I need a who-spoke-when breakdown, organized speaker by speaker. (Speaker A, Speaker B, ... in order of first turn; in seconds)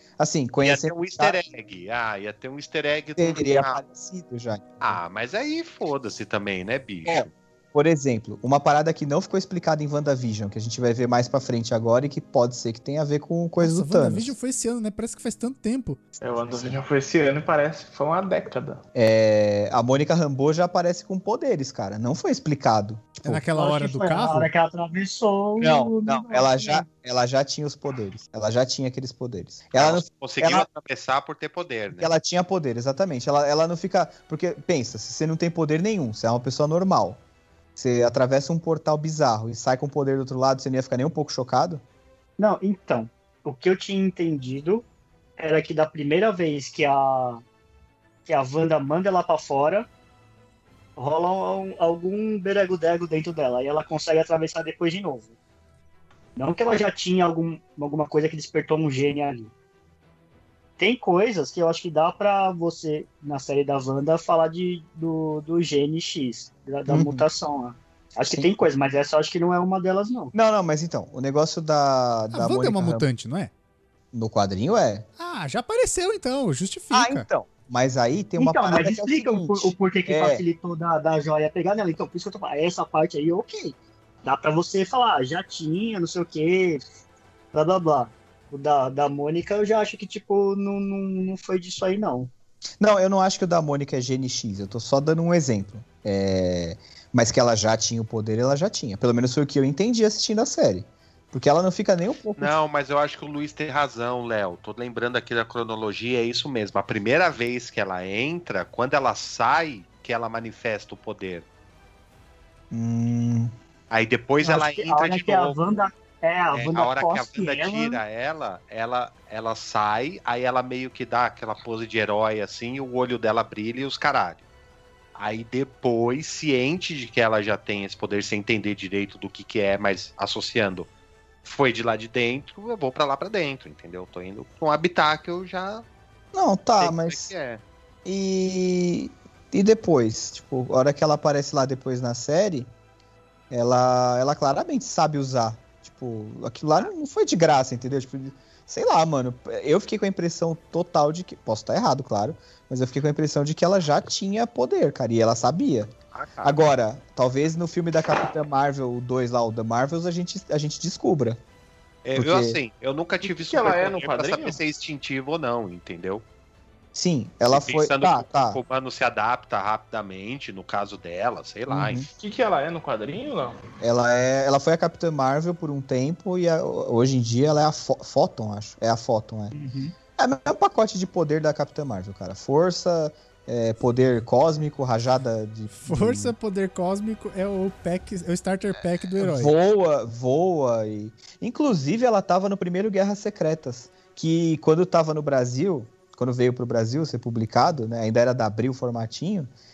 Speaker A: 0.2-1.4, 3.2-5.0, 7.0-14.3, 18.9-23.4, 25.6-30.7, 31.9-37.2, 37.8-41.8, 66.9-67.2, 70.3-73.1, 74.1-75.0, 76.9-80.4, 92.8-102.6, 112.7-113.5, 136.3-137.3, 138.0-142.7, 143.5-161.4, 162.2-162.6, 166.9-168.6, 171.7-172.1, 173.8-179.5, 180.2-186.3, 189.2-199.5
Speaker B: 0.6-3.8, 4.8-7.3, 29.7-32.1, 102.4-111.5, 113.9-115.6, 116.5-124.4, 125.2-130.9, 131.4-135.8, 136.8-137.6, 156.1-156.5, 162.0-166.2, 167.5-172.1
Speaker C: 13.6-16.0, 23.2-24.5, 72.3-73.5, 75.2-77.3, 185.7-189.5
Speaker D: 16.2-18.8, 163.2-164.6, 172.2-173.6
Speaker E: 23.5-26.8, 42.4-44.8, 45.4-47.4, 48.2-49.9, 51.0-55.3, 56.4-59.5, 60.8-70.3, 78.4-86.8, 87.5-92.3, 114.4-118.0, 179.5-179.9